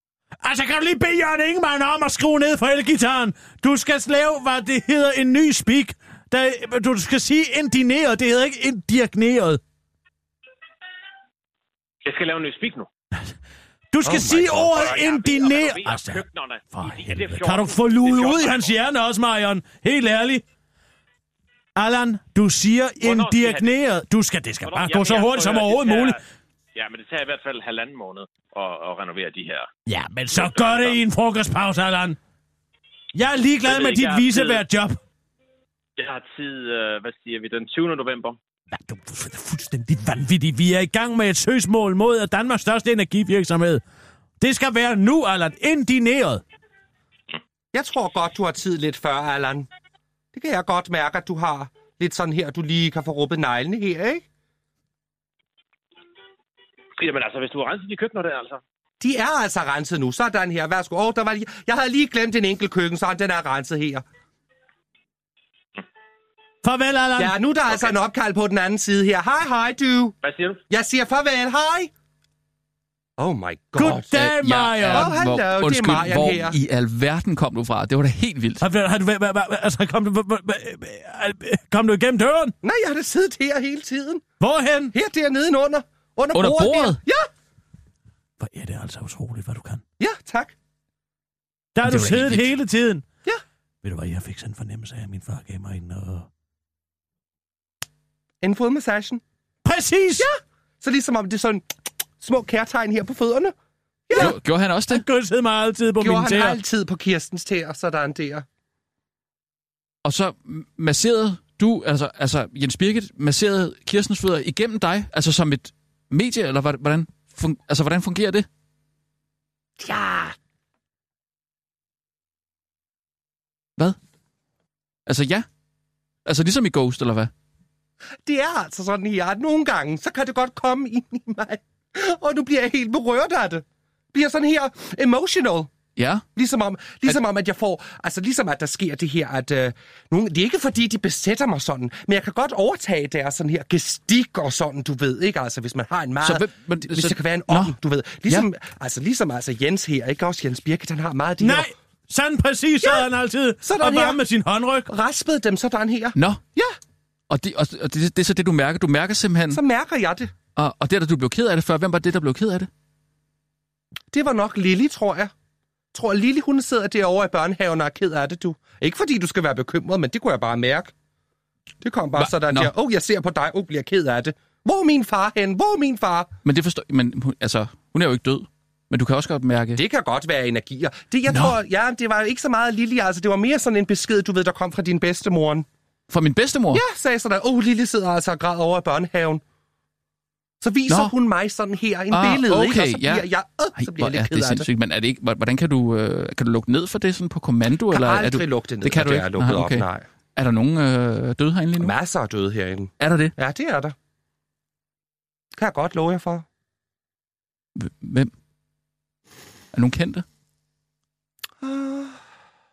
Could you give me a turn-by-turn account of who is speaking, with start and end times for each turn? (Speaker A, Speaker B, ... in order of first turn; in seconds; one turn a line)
Speaker A: 0.4-9.6
Speaker B: 12.0-12.9
Speaker A: 13.9-20.4
Speaker C: 14.0-14.9
Speaker B: 14.7-18.8
Speaker A: 21.8-26.2
Speaker B: 23.0-23.8
Speaker B: 24.6-26.2
Speaker B: 26.7-29.7
Speaker A: 29.9-32.2
Speaker B: 30.3-31.0
Speaker A: 33.1-35.0
Speaker B: 33.6-34.6
Speaker B: 36.0-38.4
Speaker A: 38.7-43.8
Speaker A: 44.4-46.4
Speaker C: 47.7-49.7
Speaker C: 50.3-54.2
Speaker B: 57.0-58.6
Speaker C: 59.0-64.0
Speaker A: 66.6-67.3
Speaker C: 67.2-70.2
Speaker B: 70.2-70.6
Speaker C: 70.7-71.9
Speaker C: 73.2-74.1
Speaker A: 73.8-75.2
Speaker D: 74.1-78.6
Speaker C: 74.8-76.5
Speaker A: 78.6-82.5
Speaker C: 82.6-84.2
Speaker A: 84.4-84.9
Speaker C: 84.9-87.3
Speaker D: 86.3-87.0
Speaker A: 88.4-89.8
Speaker C: 90.0-90.5
Speaker A: 91.7-93.0
Speaker D: 91.8-92.5
Speaker A: 93.8-96.3
Speaker C: 98.4-99.2
Speaker A: 99.6-100.3
Speaker C: 100.2-101.6
Speaker C: 102.2-103.5
Speaker C: 104.1-104.3
Speaker D: 104.1-105.0
Speaker A: 104.9-106.6
Speaker C: 106.0-108.4
Speaker D: 110.0-118.5
Speaker C: 119.8-120.3
Speaker D: 125.1-125.5
Speaker D: 126.2-127.3
Speaker C: 128.2-135.7
Speaker D: 135.9-136.2
Speaker C: 136.3-151.7
Speaker D: 146.2-147.7
Speaker A: 151.4-154.9
Speaker C: 153.6-154.2
Speaker C: 154.9-156.7
Speaker D: 156.1-156.4
Speaker D: 157.3-159.6
Speaker C: 159.5-160.3
Speaker D: 160.6-162.7
Speaker C: 164.1-165.3
Speaker C: 165.9-170.9
Speaker C: 171.8-176.3
Speaker D: 172.1-172.7
Speaker D: 176.4-179.8
Speaker C: 179.8-185.7
Speaker D: 181.3-181.6
Speaker D: 186.1-186.8
Speaker C: 186.7-189.4
Speaker C: 190.6-194.7
Speaker D: 190.9-191.1
Speaker D: 192.1-201.9
Speaker C: 197.9-200.0
Speaker C: 201.8-203.9
Speaker D: 203.0-203.3
Speaker C: 205.6-206.4
Speaker D: 207.8-208.3
Speaker D: 209.7-210.2
Speaker C: 211.6-212.2